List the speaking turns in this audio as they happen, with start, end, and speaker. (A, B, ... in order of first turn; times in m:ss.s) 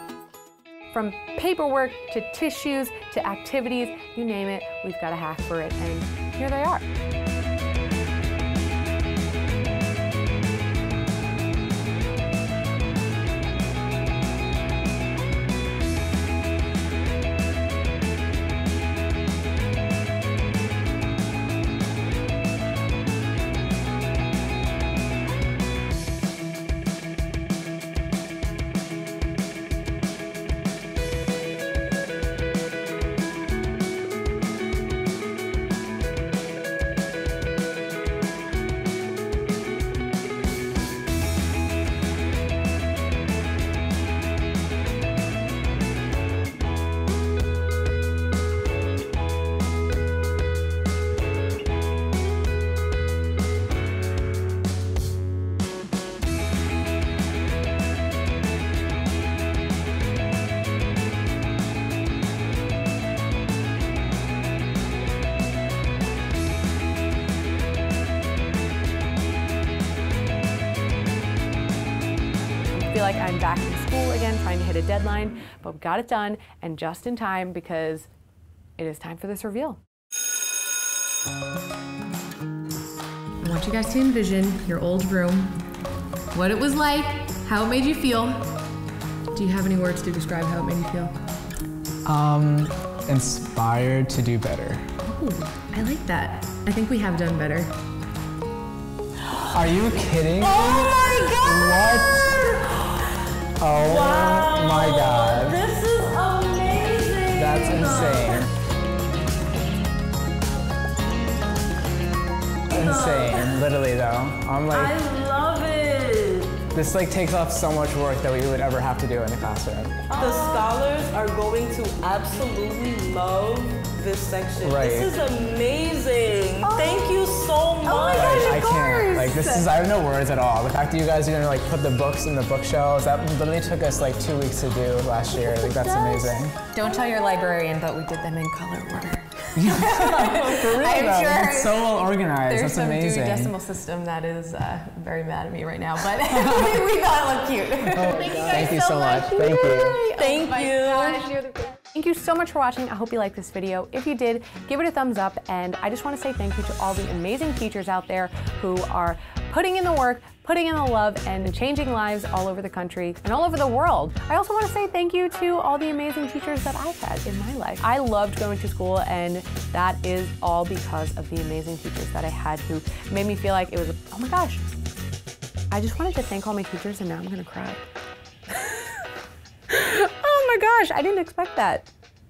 0:00.9-0:06.9 A
1:12.7-1:18.1 A
1:18.8-1:19.8 A
1:23.4-1:25.6 A
1:26.3-1:28.4 A
1:29.3-1:31.1 A
1:32.0-1:34.9 B
1:35.0-1:37.8 A
1:39.5-1:42.4 B
1:40.4-1:43.1 C
1:43.6-1:45.6 B
1:43.8-1:48.5 C
1:47.3-1:48.5 B
1:52.7-1:53.7 C
1:52.7-1:54.9 B
1:54.7-1:56.7 C
1:56.7-2:00.0 B
2:00.1-2:08.7 C
2:00.1-2:00.7 A
2:04.6-2:05.1 B
2:06.6-2:07.1 A
2:07.8-2:09.7 A
2:08.1-2:16.6 B
2:15.4-2:16.5 C
2:16.7-2:54.8 A
2:19.6-2:23.5 B
2:27.9-2:30.0 B
2:30.2-2:31.3 C
2:55.7-2:57.9 A
2:58.5-2:59.0 A
2:59.7-3:01.9 A